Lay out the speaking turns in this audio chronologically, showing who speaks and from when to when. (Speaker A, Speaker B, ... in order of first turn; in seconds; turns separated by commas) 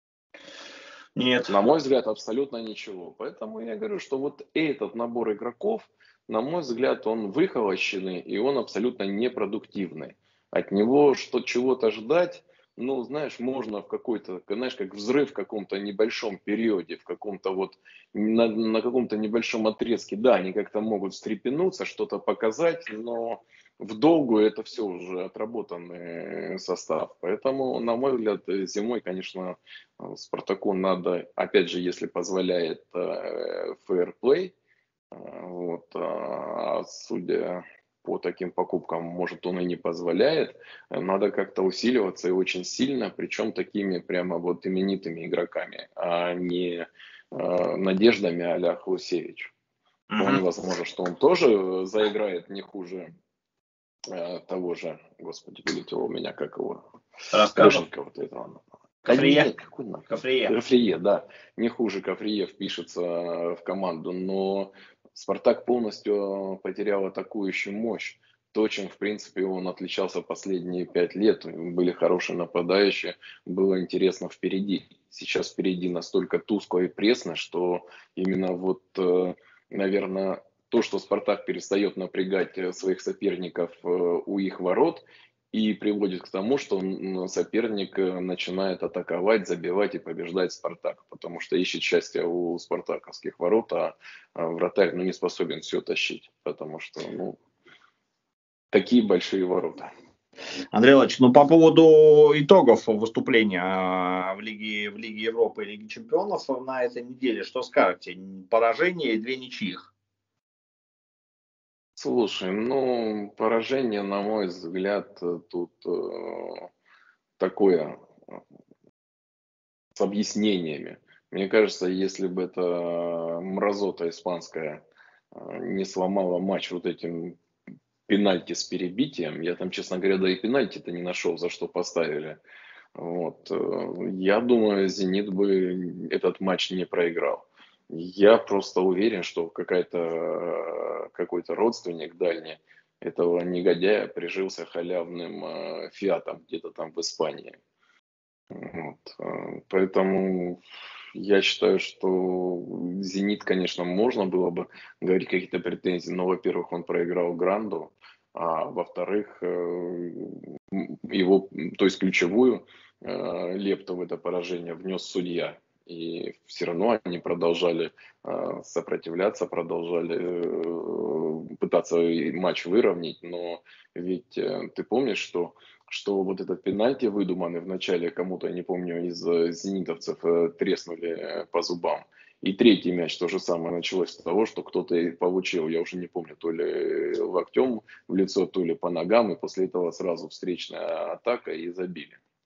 Speaker A: 1.1-1.6, Speaker B: 1.5-34.5, Speaker B: 35.1-49.5, Speaker A: 50.1-50.4, Speaker B: 50.2-53.1, Speaker B: 54.1-56.8, Speaker A: 57.3-57.8, Speaker B: 57.5-97.4, Speaker A: 59.0-59.5, Speaker A: 60.1-60.5, Speaker B: 98.7-99.9, Speaker A: 100.7-109.9, Speaker B: 112.0-116.7, Speaker B: 117.4-118.0, Speaker B: 119.9-127.4, Speaker B: 128.1-132.4, Speaker B: 132.9-147.6, Speaker B: 148.5-150.6, Speaker B: 151.1-192.2